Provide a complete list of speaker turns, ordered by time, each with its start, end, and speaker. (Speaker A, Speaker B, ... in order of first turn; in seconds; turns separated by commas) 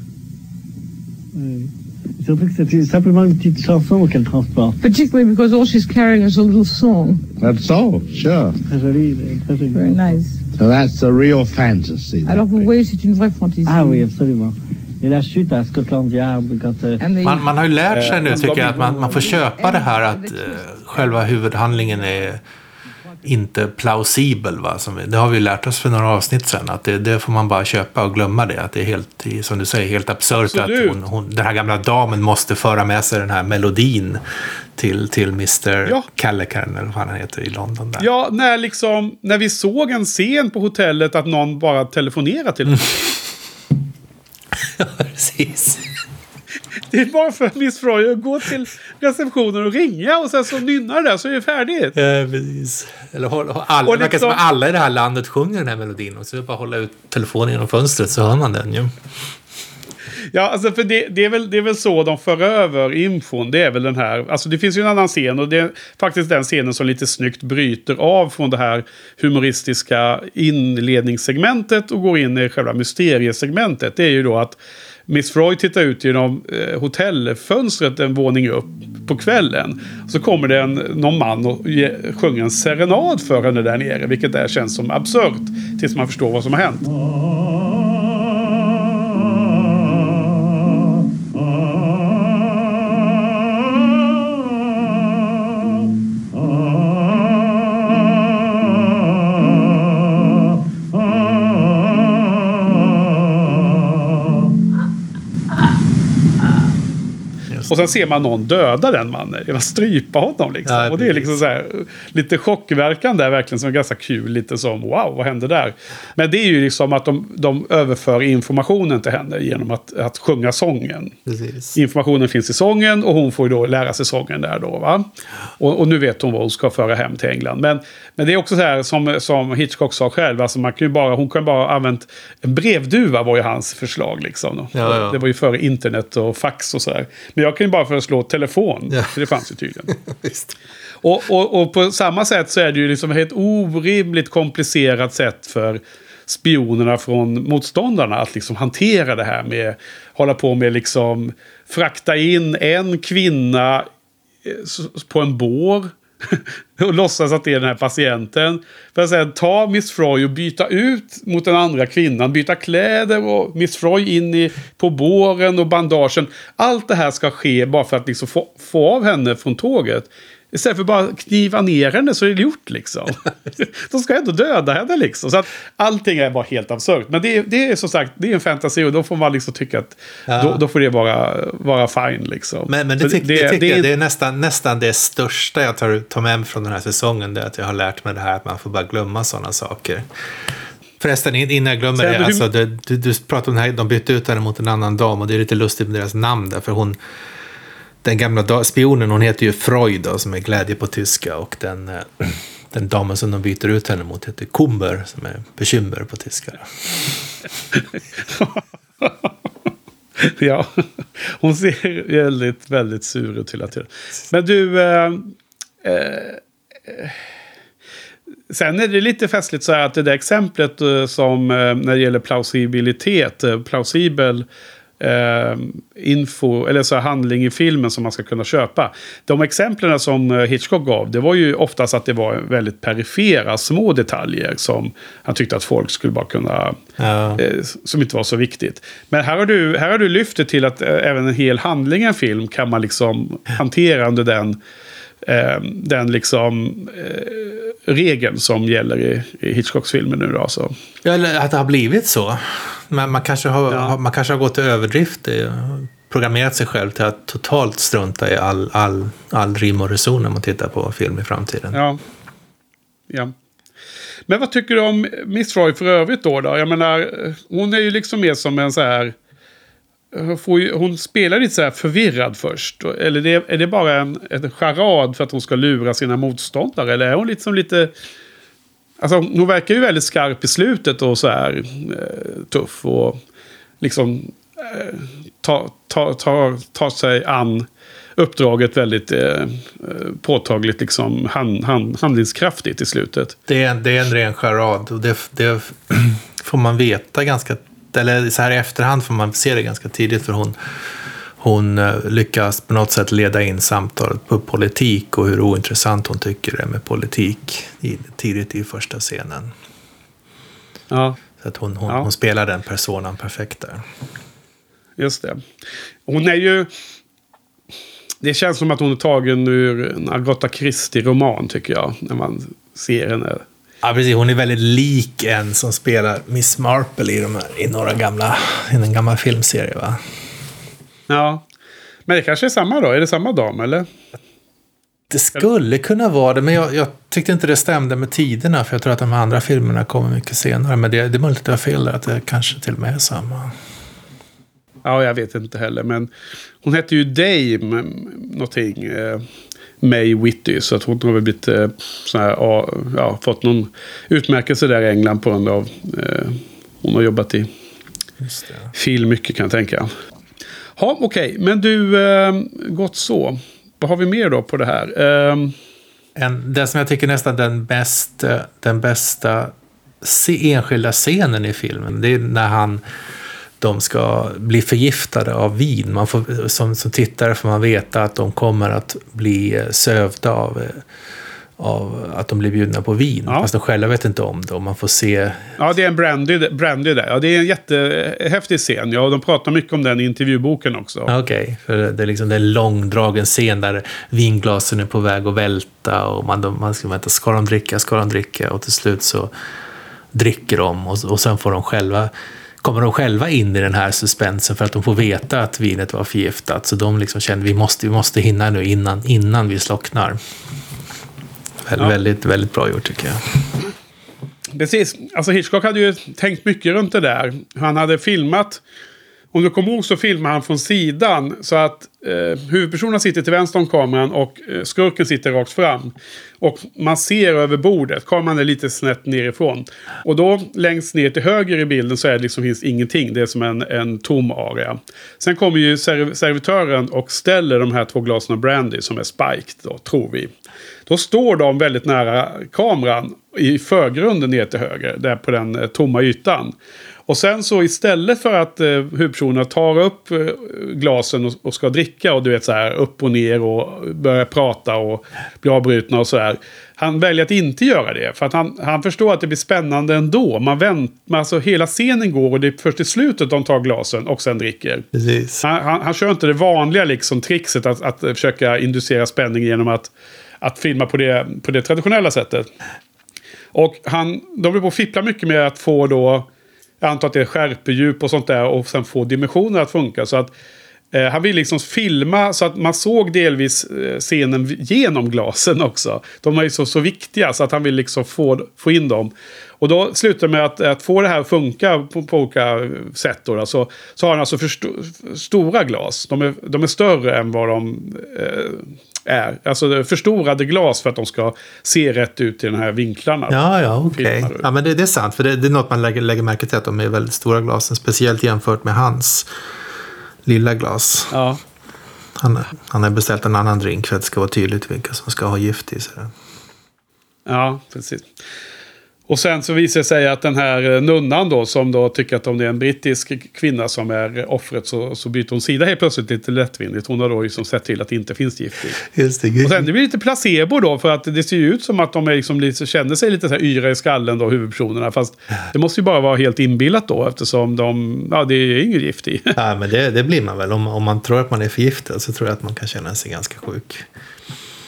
Speaker A: 1.4-4.8, Speaker B: 4.8-7.2, Speaker C: 7.4-8.6, Speaker A: 8.6-10.2, Speaker B: 9.7-10.4, Speaker C: 10.6-12.7, Speaker B: 12.3-14.1, Speaker A: 13.7-17.0, Speaker B: 17.0-17.5, Speaker D: 17.2-22.4, Speaker E: 17.9-18.9, Speaker B: 18.3-22.1, Speaker D: 23.2-34.2, Speaker E: 30.4-31.0, Speaker D: 34.8-38.1, Speaker E: 38.0-42.9, Speaker D: 44.6-45.9, Speaker E: 46.9-52.0, Speaker D: 52.0-58.9, Speaker E: 53.9-54.4, Speaker E: 60.3-74.6, Speaker E: 75.1-86.9, Speaker E: 107.7-121.2, Speaker D: 110.7-111.4, Speaker D: 121.3-121.8, Speaker E: 121.8-125.1, Speaker E: 125.6-139.9, Speaker D: 134.7-135.2, Speaker D: 139.9-140.6, Speaker E: 141.0-153.9, Speaker E: 154.4-183.9, Speaker D: 180.3-180.6, Speaker D: 182.7-190.1, Speaker D: 191.0-197.0, Speaker E: 192.0-192.4, Speaker D: 198.0-206.7, Speaker E: 207.7-209.3, Speaker E: 210.2-217.2, Speaker E: 218.5-224.5, Speaker E: 225.0-236.8, Speaker D: 237.0-237.4, Speaker E: 237.4-244.6, Speaker E: 245.2-250.7, Speaker D: 251.0-261.8, Speaker E: 253.7-254.0, Speaker E: 261.7-262.0, Speaker E: 264.3-269.1, Speaker E: 270.1-277.9, Speaker E: 279.0-283.2, Speaker E: 283.8-293.4, Speaker D: 293.5-300.6, Speaker D: 301.4-309.5, Speaker E: 310.9-311.2, Speaker D: 311.4-313.8, Speaker E: 315.0-315.4, Speaker E: 316.1-316.7, Speaker E: 318.2-323.4, Speaker D: 323.8-330.0, Speaker E: 331.1-331.4, Speaker E: 332.1-333.9, Speaker D: 335.1-343.5, Speaker E: 344.9-346.1, Speaker E: 346.6-349.2, Speaker E: 349.8-357.5, Speaker D: 358.2-358.7, Speaker E: 358.7-359.9, Speaker E: 360.8-365.6, Speaker D: 366.2-372.8, Speaker D: 373.6-380.9, Speaker D: 381.6-385.6, Speaker E: 385.6-391.1, Speaker D: 391.1-399.3, Speaker D: 400.1-410.2, Speaker D: 411.7-413.3, Speaker E: 414.6-418.6, Speaker E: 419.3-440.3, Speaker E: 440.9-446.6, Speaker E: 447.1-464.9, Speaker D: 464.9-465.4, Speaker E: 465.4-469.9, Speaker E: 470.4-472.5, Speaker E: 473.5-476.3, Speaker E: 476.8-480.3, Speaker E: 480.9-503.4, Speaker D: 503.3-509.3, Speaker E: 503.9-504.5, Speaker D: 510.2-511.1, Speaker E: 511.1-511.4, Speaker D: 512.2-516.1, Speaker E: 517.3-518.1, Speaker E: 519.1-528.8, Speaker D: 528.8-529.7, Speaker E: 529.4-539.4, Speaker D: 539.4-543.9